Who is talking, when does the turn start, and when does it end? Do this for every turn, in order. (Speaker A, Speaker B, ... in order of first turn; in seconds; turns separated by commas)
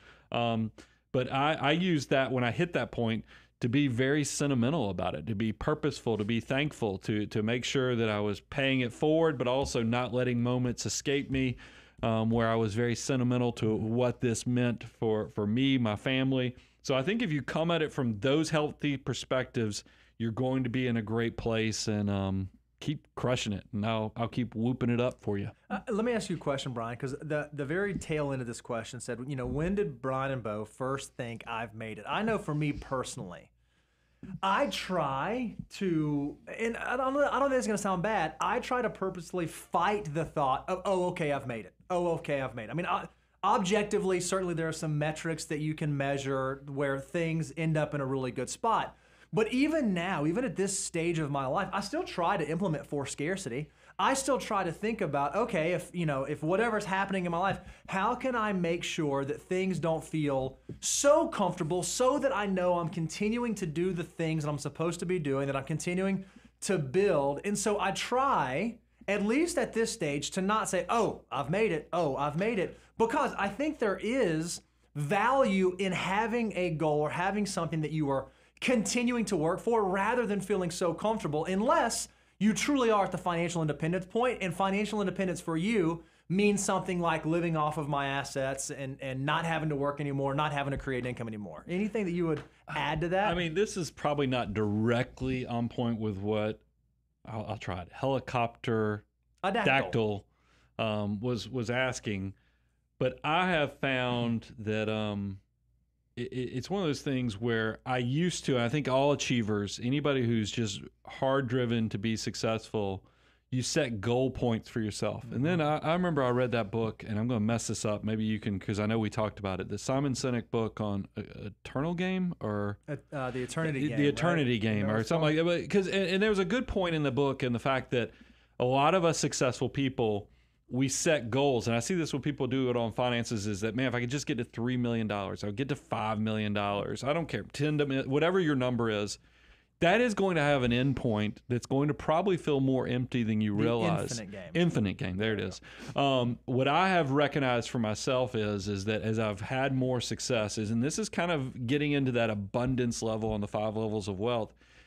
Speaker A: 0.3-25.5, Speaker B: 25.7-33.5, Speaker B: 34.4-93.4, Speaker A: 93.2-96.6, Speaker A: 97.2-99.0, Speaker B: 99.4-100.0, Speaker A: 99.6-100.2, Speaker A: 100.8-102.3, Speaker A: 103.0-105.4, Speaker A: 106.2-122.8, Speaker B: 122.9-125.3, Speaker A: 123.6-139.2, Speaker A: 139.8-154.5, Speaker B: 143.5-144.6